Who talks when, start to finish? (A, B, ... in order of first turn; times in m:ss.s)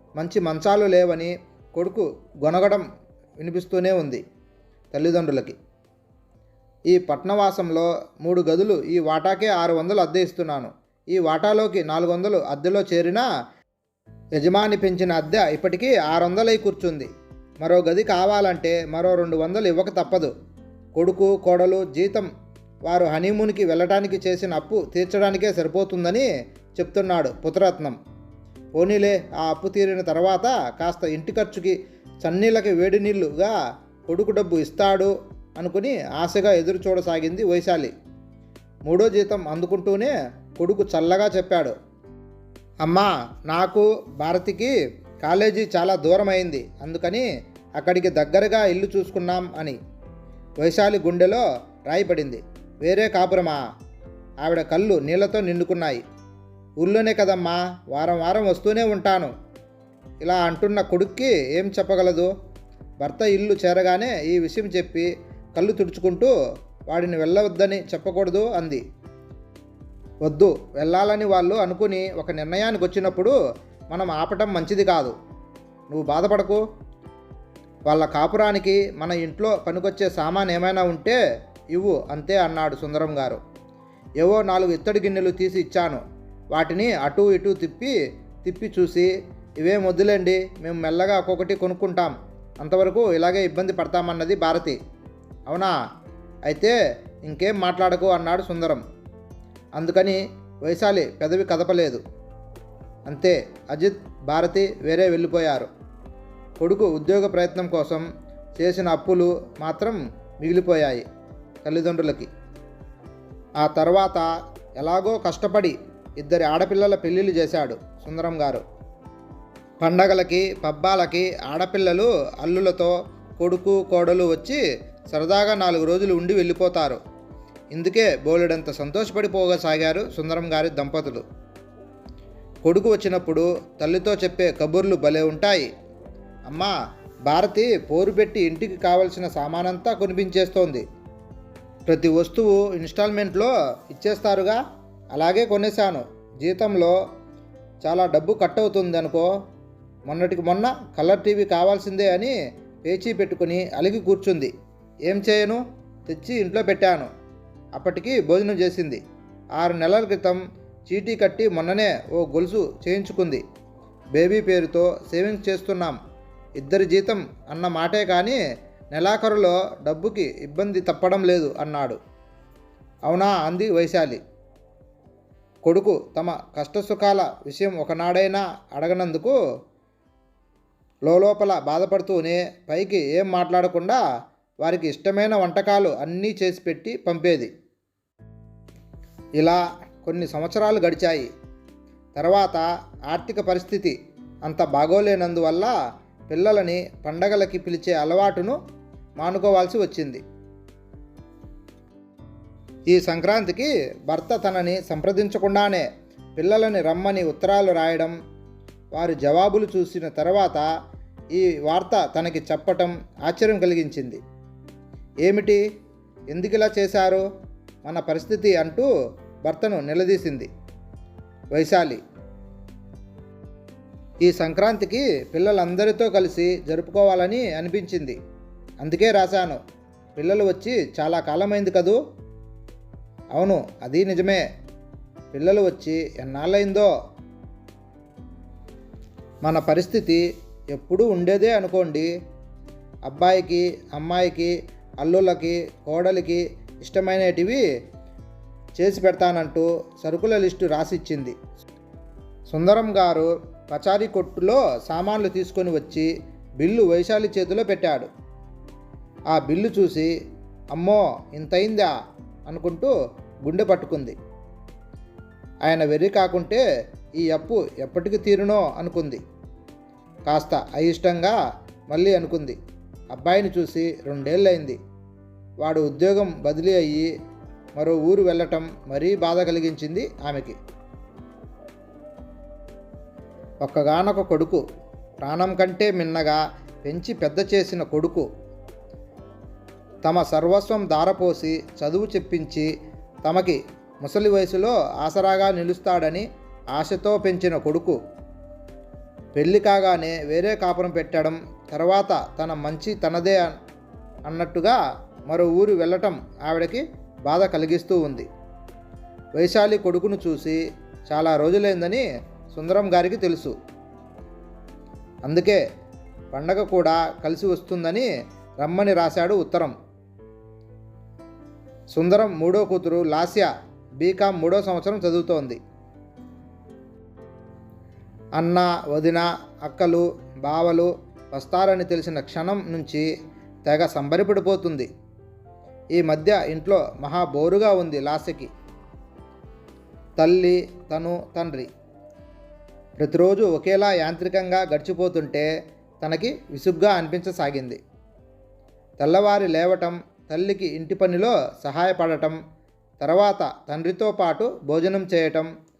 0:00.2-0:02.8 A
0:03.4-0:04.2 A
0:04.9-0:05.6 A
0:06.9-0:13.2 A
0:14.4-0:17.1 A
0:17.6-0:20.3 A
0:21.0-0:22.3 A
0:22.9-0:26.2 A
0:26.8-0:28.0 A
0:28.7-0:33.5 A
0:34.1-0:37.9 A
0:38.8-0:41.7 A
0:42.8-0:49.8 A
0:50.6-0:53.6 A
0:54.4-0:56.0 A
0:56.8-0:59.3 A
1:00.2-1:02.3 A
1:03.0-1:06.3 A
1:06.9-1:08.8 A
1:10.2-1:13.4 A
1:13.9-1:15.1 A
1:15.9-1:16.6 A
1:17.9-1:21.2 A
1:21.7-1:23.4 A
1:24.2-1:34.8 A
1:35.5-1:35.7 A
1:36.5-1:38.8 A
1:39.8-1:42.0 A
1:43.1-1:45.7 A
1:46.6-1:48.0 A
1:48.6-1:51.0 A
1:51.6-1:52.3 A
1:53.6-1:58.6 A
1:59.8-2:04.6 A
2:05.1-2:07.0 A
2:07.7-2:11.2 A
2:12.6-2:15.7 A
2:16.5-2:16.7 A
2:17.2-2:20.8 A
2:21.9-2:24.6 A
2:25.1-2:27.0 A
2:27.8-2:29.3 A
2:30.1-2:34.5 A
2:35.0-2:37.1 A
2:37.8-2:39.0 A
2:39.6-2:43.4 A
2:44.1-2:46.0 A
2:46.6-2:48.4 A
2:48.9-2:52.0 A
2:53.0-2:54.2 A
2:55.6-2:59.4 A
3:01.0-3:04.0 A
3:04.6-3:07.5 A
3:09.4-3:11.3 A
3:12.2-3:15.7 A
3:16.3-3:18.6 A
3:19.2-3:20.2 A
3:22.9-3:28.1 A
3:28.9-3:30.6 A
3:31.3-3:34.2 A
3:35.2-3:35.6 A
3:36.3-3:37.2 A
3:37.8-3:38.9 A
3:39.4-3:40.5 A
3:41.5-3:42.0 A
3:44.2-3:48.2 A
3:48.8-3:49.6 A
3:50.2-3:52.0 A
3:53.3-3:54.4 A
3:55.3-3:56.9 A
3:59.4-4:00.2 A
4:00.7-4:02.1 A
4:03.0-4:07.6 A
4:08.8-4:11.4 A
4:12.5-4:18.1 A
4:19.3-4:20.1 A
4:20.7-4:21.9 A
4:22.5-4:22.9 A
4:23.4-4:24.2 A
4:25.6-4:26.6 A
4:27.2-4:29.2 A
4:30.3-4:31.4 A
4:31.9-4:32.6 A
4:33.1-4:34.8 A
4:35.6-4:37.1 A
4:37.8-4:40.6 A
4:43.6-4:44.6 A
4:45.2-4:48.2 A
4:50.0-4:52.7 A
4:53.2-4:58.0 A
4:59.4-5:03.5 A
5:04.3-5:04.8 A
5:05.3-5:08.3 A
5:09.4-5:13.5 A
5:15.2-5:15.6 A
5:16.3-5:18.1 A
5:18.6-5:19.7 A
5:21.9-5:25.6 A
5:28.4-5:33.0 A
5:33.6-5:34.9 A
5:36.0-5:38.5 A
5:40.2-5:41.7 A
5:43.0-5:45.5 A
5:46.0-5:47.8 A
5:49.0-5:52.4 A
5:53.0-5:55.5 A